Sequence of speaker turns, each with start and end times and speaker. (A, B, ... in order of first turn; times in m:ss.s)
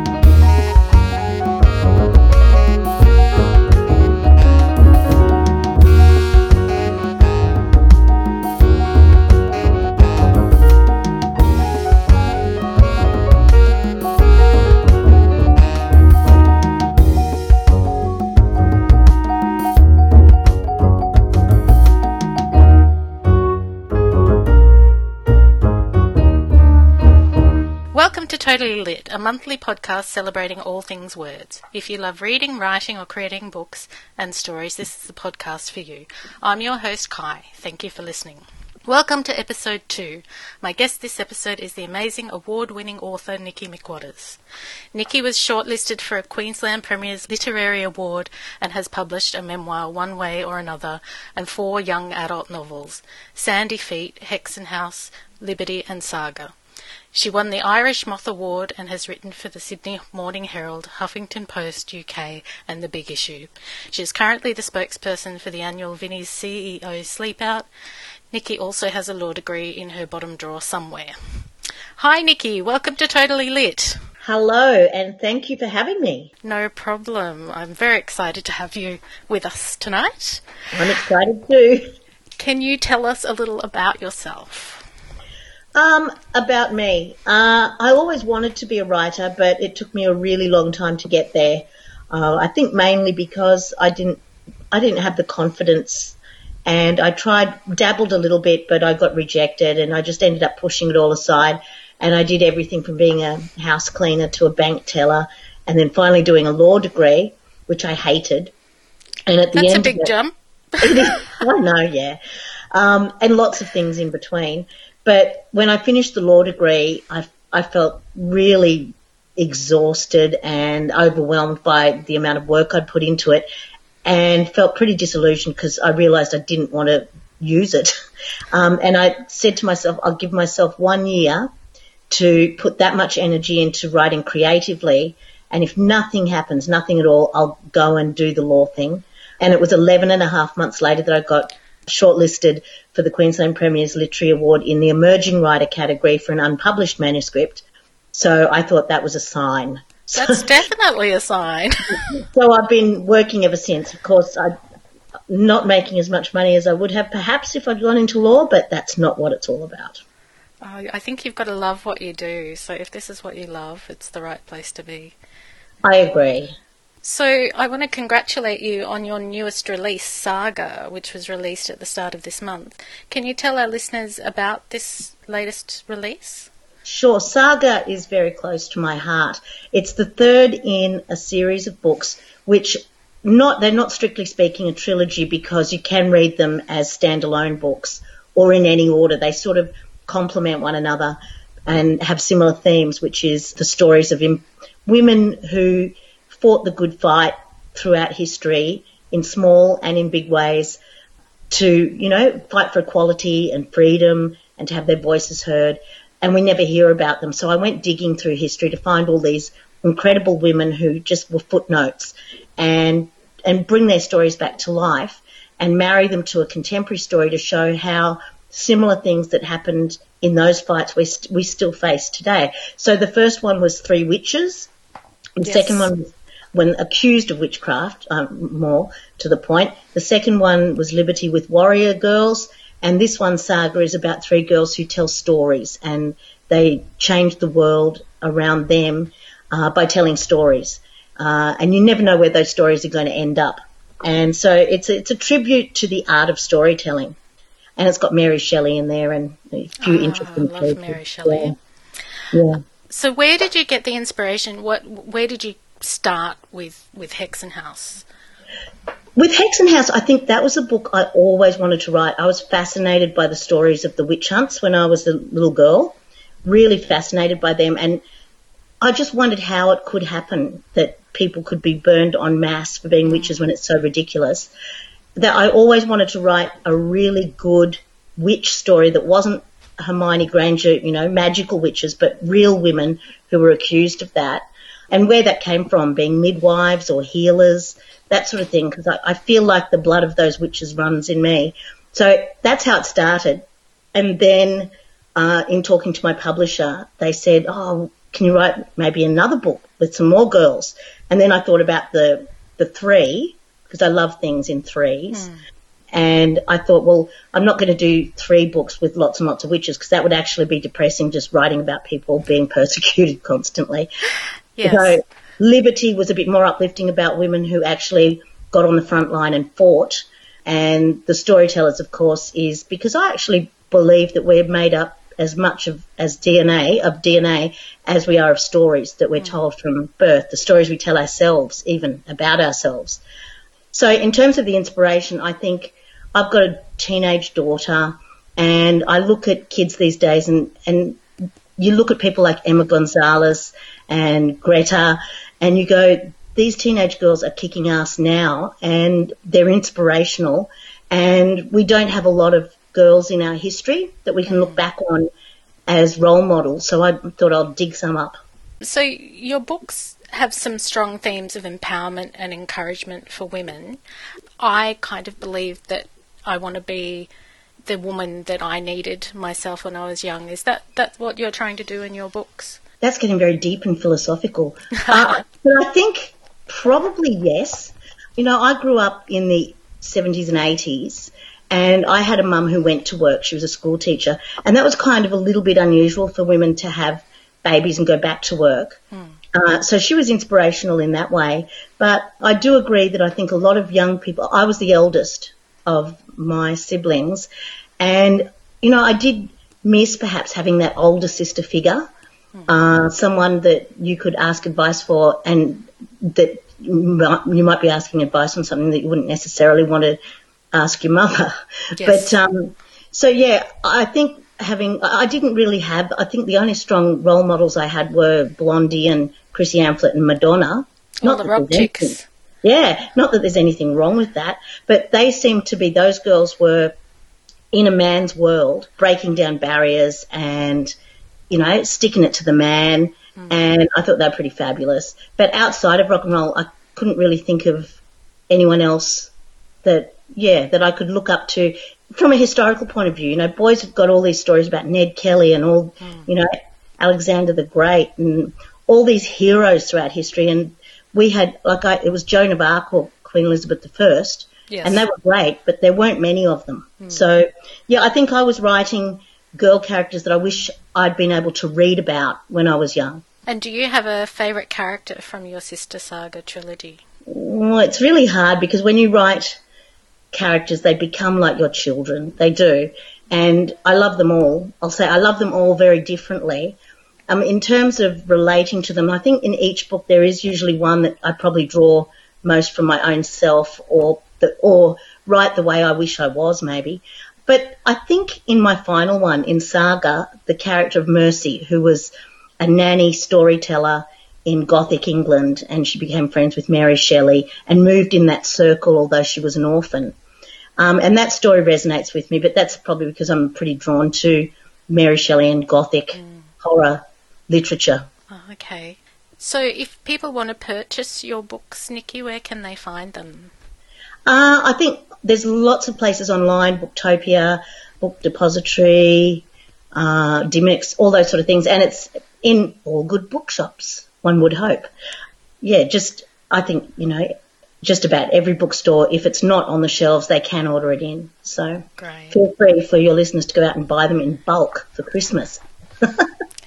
0:27.9-0:44.4 A
0:44.9-0:56.5 A
0:57.1-1:07.6 A
1:08.3-1:11.1 A
1:12.0-1:14.0 A
1:14.2-1:16.3 B
1:16.4-1:20.4 A
1:20.7-1:21.9 B
1:22.4-1:24.8 A
1:25.7-1:34.2 B
1:34.7-1:48.5 B
1:49.3-1:50.1 B
1:49.5-1:50.3 A
1:50.8-1:52.2 B
1:52.7-2:03.5 B
2:04.0-2:07.9 B
2:08.5-2:11.5 B
2:12.1-2:30.6 B
2:30.1-2:32.0 A
2:32.0-2:34.5 B
2:35.3-2:40.0 B
2:40.6-2:45.1 A
2:45.8-2:46.6 B
2:47.0-2:56.5 A
2:56.8-3:20.8 B
3:21.5-3:44.7 B
3:45.4-4:07.2 B
3:45.4-3:45.9 A
4:07.8-4:11.6 B
4:09.8-4:11.5 A
4:12.3-4:12.6 B
4:12.9-4:18.0 A
4:19.2-4:28.0 B
4:28.8-4:34.5 B
4:35.2-5:05.3 B
5:05.1-5:05.4 A
5:05.9-5:13.9 B
5:14.6-5:15.0 A
5:14.6-5:33.0 B
5:33.7-5:41.0 B
5:41.6-5:55.1 B
5:54.3-5:54.6 A
5:55.7-5:58.2 B
5:58.6-6:03.8 A
6:04.4-6:07.1 A
6:07.6-6:12.6 A
6:12.8-6:28.8 B
6:29.3-6:37.3 B
6:37.8-6:41.9 B
6:42.5-6:50.0 B
6:50.5-7:06.7 B
6:51.8-6:52.2 A
7:01.0-7:02.0 A
7:07.5-7:10.7 B
7:11.3-7:17.8 B
7:18.3-7:19.1 B
7:19.6-7:43.0 B
7:25.8-7:26.1 A
7:34.5-7:34.8 A
7:43.3-7:46.8 A
7:47.1-7:49.4 B
7:50.1-7:56.6 B
7:57.1-8:20.0 B
8:20.6-8:27.9 B
8:26.0-8:26.2 A
8:28.1-8:33.3 A
8:34.0-8:44.7 B
8:45.4-8:56.1 B
8:51.8-8:52.2 A